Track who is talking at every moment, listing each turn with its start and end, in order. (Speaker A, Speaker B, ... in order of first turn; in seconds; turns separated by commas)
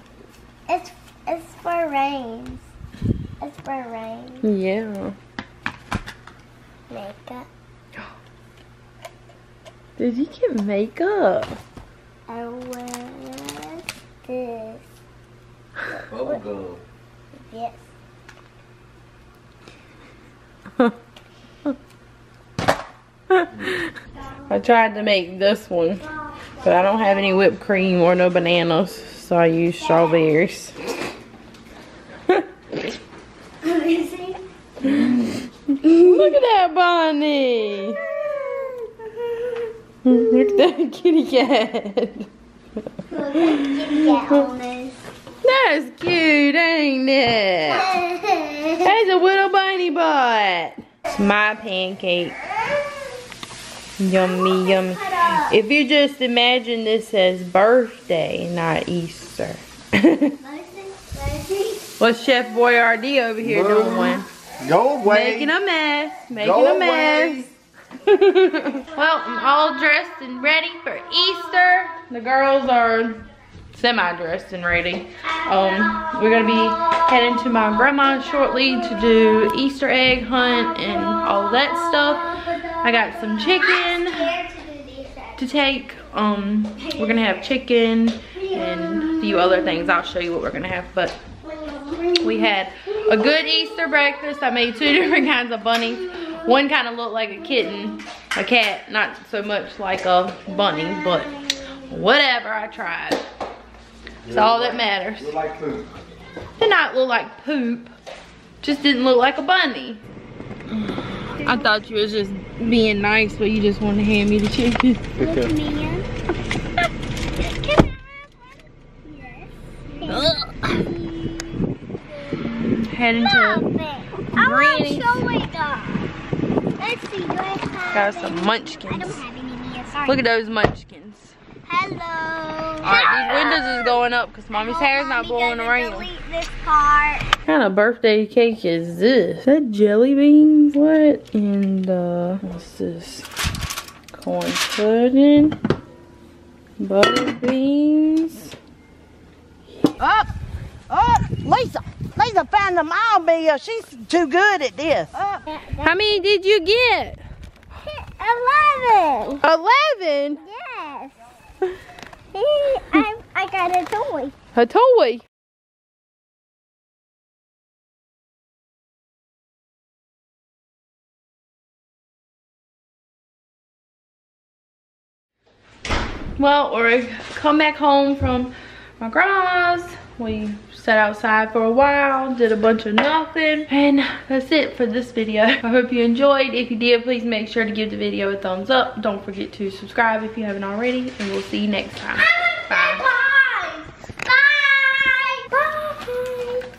Speaker A: 0.7-2.6, Speaker A: 3.4-4.4, Speaker B: 4.4-5.2, Speaker A: 6.9-7.5, Speaker B: 10.0-11.6, Speaker A: 12.3-14.8, Speaker A: 16.2-16.4, Speaker C: 16.4-16.8, Speaker A: 17.5-17.8, Speaker B: 23.3-23.8, Speaker B: 24.5-26.1, Speaker A: 26.3-27.0, Speaker B: 26.6-30.8, Speaker A: 29.9-30.3, Speaker A: 33.6-34.4, Speaker B: 34.8-38.0, Speaker A: 38.2-39.7, Speaker B: 40.0-42.3, Speaker A: 40.4-40.7, Speaker A: 43.1-45.1, Speaker B: 43.5-44.3, Speaker B: 45.4-47.9, Speaker A: 47.7-48.9, Speaker B: 48.8-52.4, Speaker B: 54.0-60.4, Speaker A: 54.5-55.5, Speaker A: 60.4-61.9, Speaker B: 62.0-64.3, Speaker C: 63.4-65.5, Speaker B: 65.0-67.5, Speaker C: 66.3-67.5, Speaker B: 68.0-73.2, Speaker B: 73.7-84.3, Speaker A: 75.4-76.7, Speaker A: 78.0-79.2, Speaker A: 80.8-85.4, Speaker B: 85.4-91.2, Speaker A: 86.8-87.4, Speaker A: 88.3-89.8, Speaker A: 91.4-92.5, Speaker B: 92.2-101.3, Speaker A: 93.1-93.6, Speaker A: 100.5-101.7, Speaker B: 101.9-103.2, Speaker C: 104.2-105.9, Speaker B: 104.3-105.4, Speaker B: 106.6-107.9, Speaker B: 108.6-110.0, Speaker B: 110.8-115.2, Speaker A: 115.2-116.1, Speaker C: 115.2-115.5, Speaker A: 117.4-118.5, Speaker A: 119.0-121.6, Speaker B: 120.1-120.9, Speaker B: 122.3-123.7, Speaker A: 123.2-126.1, Speaker B: 124.3-125.2, Speaker A: 126.8-130.2, Speaker B: 127.9-129.2, Speaker B: 130.1-131.3, Speaker A: 131.6-134.0, Speaker B: 132.8-136.1, Speaker A: 134.5-137.3, Speaker B: 137.4-143.3, Speaker B: 144.1-145.6, Speaker B: 146.8-148.6, Speaker D: 150.0-150.3, Speaker D: 150.9-155.1, Speaker A: 155.5-155.9, Speaker B: 155.8-157.2, Speaker A: 157.8-159.4, Speaker B: 159.4-160.4, Speaker A: 160.4-161.2, Speaker A: 162.3-164.3, Speaker B: 164.6-165.2, Speaker B: 176.4-193.1, Speaker A: 192.2-196.7